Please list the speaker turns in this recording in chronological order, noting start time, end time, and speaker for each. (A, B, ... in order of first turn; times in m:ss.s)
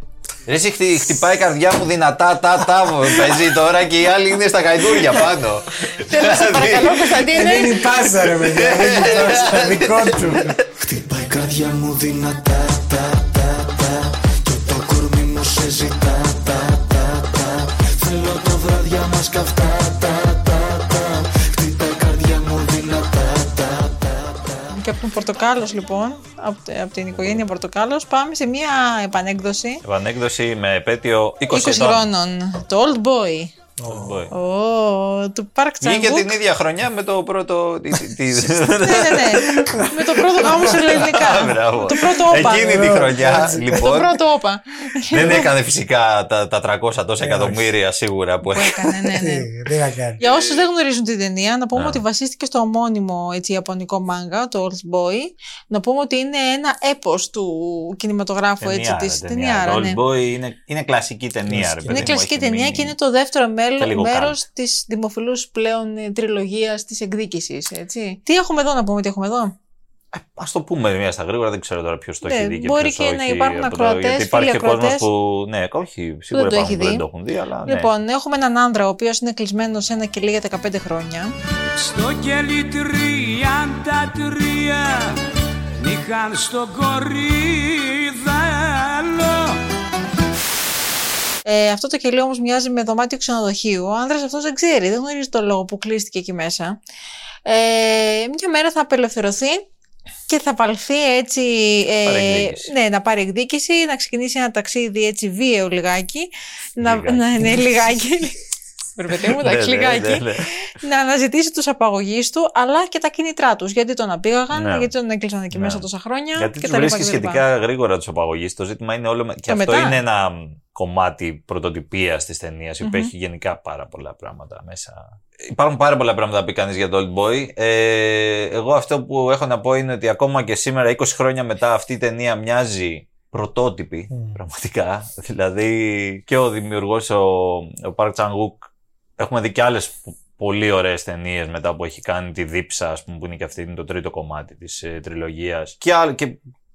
0:00.5-0:07.2 A
0:05.9-0:07.9 B
0:07.3-0:10.6 C
0:08.4-0:10.7 A
0:10.7-0:24.7 D
0:24.7-0:29.8 B
0:27.1-0:27.5 A
0:29.8-0:32.1 A
0:31.5-0:33.5 B
0:33.8-0:34.3 C
0:33.9-0:34.3 A
0:34.3-0:36.4 B
0:35.8-0:44.1 A
0:38.8-0:43.1 B
0:42.4-0:43.8 C
0:43.7-0:45.5 B
0:45.1-0:49.0 A
0:47.2-0:47.7 C
0:48.5-0:49.5 B
0:49.1-0:50.2 C
0:50.2-1:00.0 B
0:51.8-0:52.0 A
0:58.6-1:03.0 A
1:01.5-1:02.1 C
1:01.9-1:09.6 B
1:03.8-1:04.4 A
1:10.1-1:17.9 A
1:12.2-1:15.1 B
1:16.3-1:17.0 B
1:17.6-1:21.3 B
1:21.8-1:25.2 E
1:25.8-1:29.6 E
1:31.5-1:36.8 B
1:37.5-1:39.7 B
1:40.3-1:48.4 B
1:42.0-1:42.7 A
1:46.8-1:47.6 A
1:49.0-1:57.4 B
1:49.2-1:50.5 A
1:54.5-1:54.9 A
1:55.5-2:26.4 A
1:59.5-2:00.0 B
2:02.8-2:03.1 B
2:14.1-2:14.4 C